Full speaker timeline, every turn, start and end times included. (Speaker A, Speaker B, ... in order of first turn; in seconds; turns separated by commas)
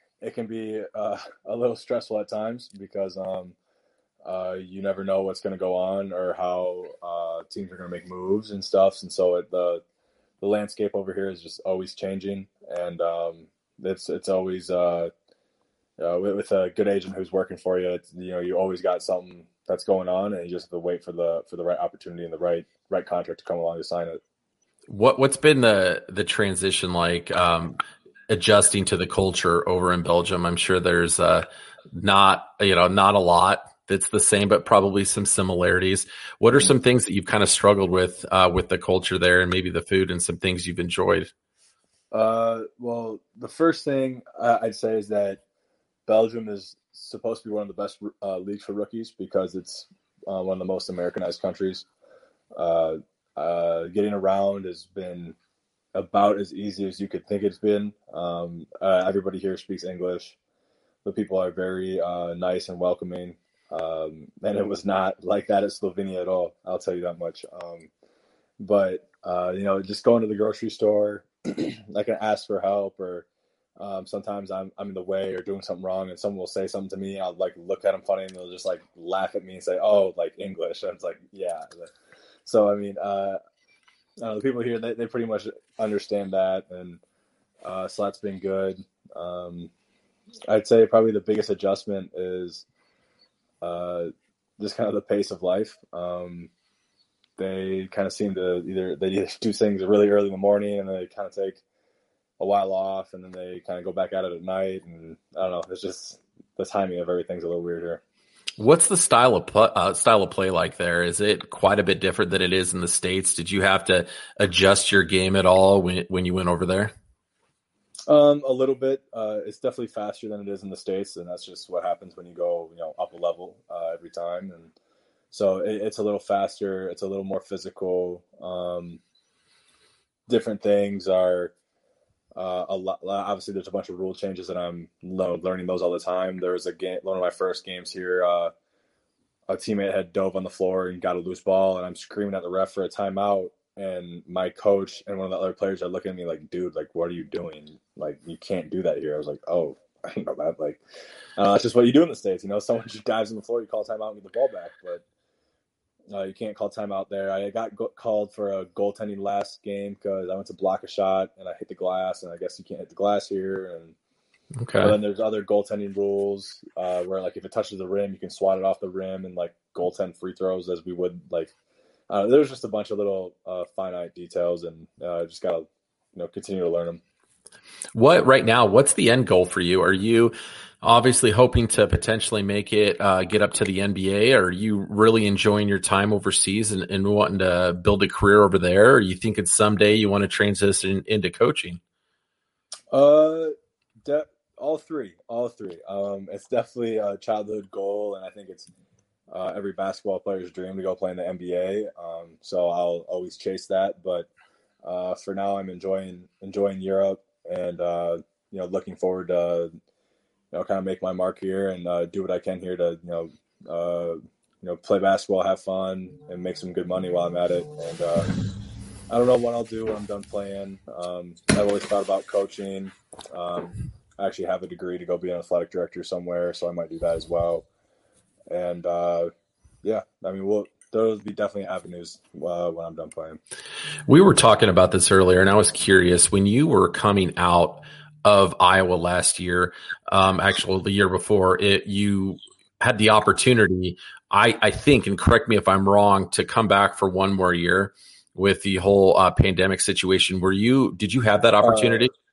Speaker A: 0.2-3.5, Speaker A: 4.2-9.8, Speaker A: 10.4-15.1, Speaker A: 16.0-24.2, Speaker B: 24.9-41.3, Speaker A: 42.1-45.4, Speaker A: 46.1-51.9, Speaker A: 52.5-55.3, Speaker A: 55.9-60.4, Speaker A: 61.0-67.9, Speaker A: 68.6-73.2, Speaker A: 73.8-81.9, Speaker A: 82.4-83.4, Speaker A: 84.2-87.0, Speaker A: 87.6-89.7, Speaker A: 90.5-92.6, Speaker A: 93.6-96.5, Speaker A: 97.4-101.6, Speaker A: 102.4-108.0, Speaker B: 108.6-116.9, Speaker A: 118.1-124.7, Speaker A: 125.3-129.0, Speaker A: 130.3-131.5, Speaker A: 132.3-138.5, Speaker A: 139.5-150.8, Speaker A: 151.4-155.0, Speaker A: 156.1-163.9, Speaker B: 164.6-164.9, Speaker A: 164.8-171.5, Speaker A: 172.1-177.0, Speaker B: 177.9-191.8, Speaker A: 192.9-198.7, Speaker A: 199.3-204.3, Speaker A: 204.8-209.7, Speaker A: 210.5-218.3, Speaker A: 219.1-227.7, Speaker A: 228.5-229.3, Speaker A: 229.8-233.4, Speaker B: 234.1-252.1, Speaker A: 251.6-252.1